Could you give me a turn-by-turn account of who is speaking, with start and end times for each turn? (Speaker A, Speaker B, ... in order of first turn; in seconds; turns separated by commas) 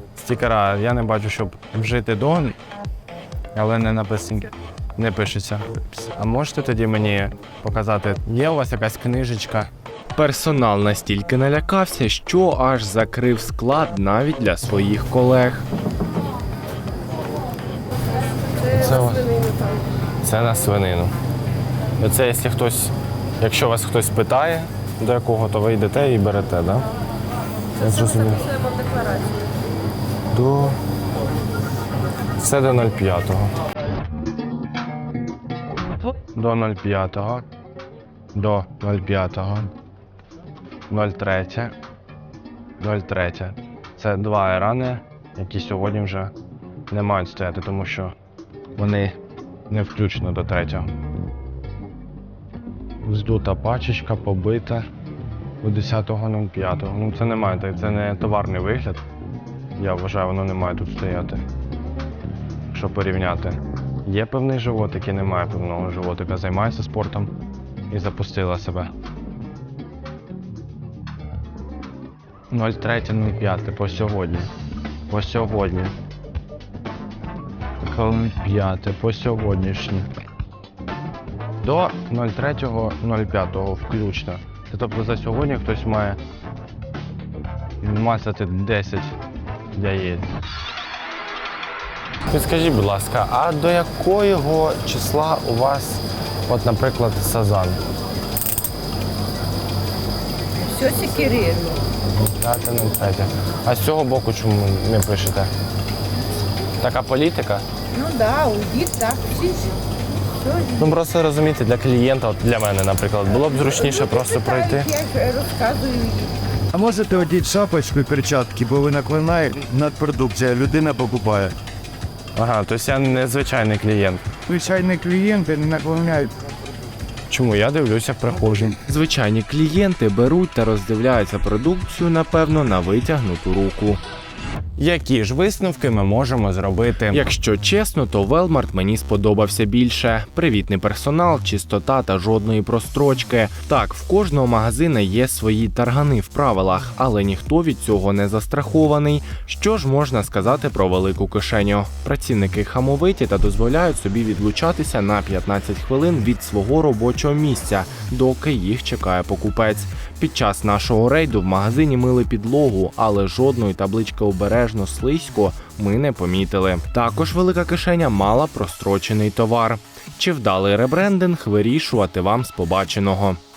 Speaker A: 0.2-2.6, Speaker A: 3.5-9.7, Speaker B: 10.2-15.7, Speaker A: 18.7-19.3, Speaker A: 20.2-21.1, Speaker A: 22.0-26.9, Speaker A: 27.8-28.5, Speaker A: 30.3-30.8, Speaker A: 32.4-33.5, Speaker A: 36.3-37.4, Speaker A: 38.4-39.7, Speaker A: 40.9-41.7, Speaker A: 42.8-46.3, Speaker A: 46.9-48.1, Speaker A: 48.8-49.2, Speaker A: 49.7-50.9, Speaker A: 53.0-54.9, Speaker A: 55.6-59.0, Speaker A: 59.8-61.4, Speaker A: 62.7-67.3, Speaker A: 67.9-68.9, Speaker A: 72.5-74.5, Speaker A: 75.1-75.9, Speaker A: 77.8-80.1, Speaker A: 81.6-86.2, Speaker A: 87.8-89.2, Speaker A: 89.8-90.3, Speaker A: 92.3-97.8, Speaker C: 100.7-101.8, Speaker A: 102.2-105.5, Speaker A: 106.8-107.7, Speaker C: 107.9-109.7, Speaker C: 110.4-110.8, Speaker A: 110.8-114.9, Speaker C: 113.7-116.3, Speaker D: 116.7-121.5, Speaker A: 122.4-124.2, Speaker D: 124.5-126.3, Speaker A: 127.3-128.8, Speaker B: 128.9-134.0, Speaker A: 134.8-137.3, Speaker B: 137.1-173.4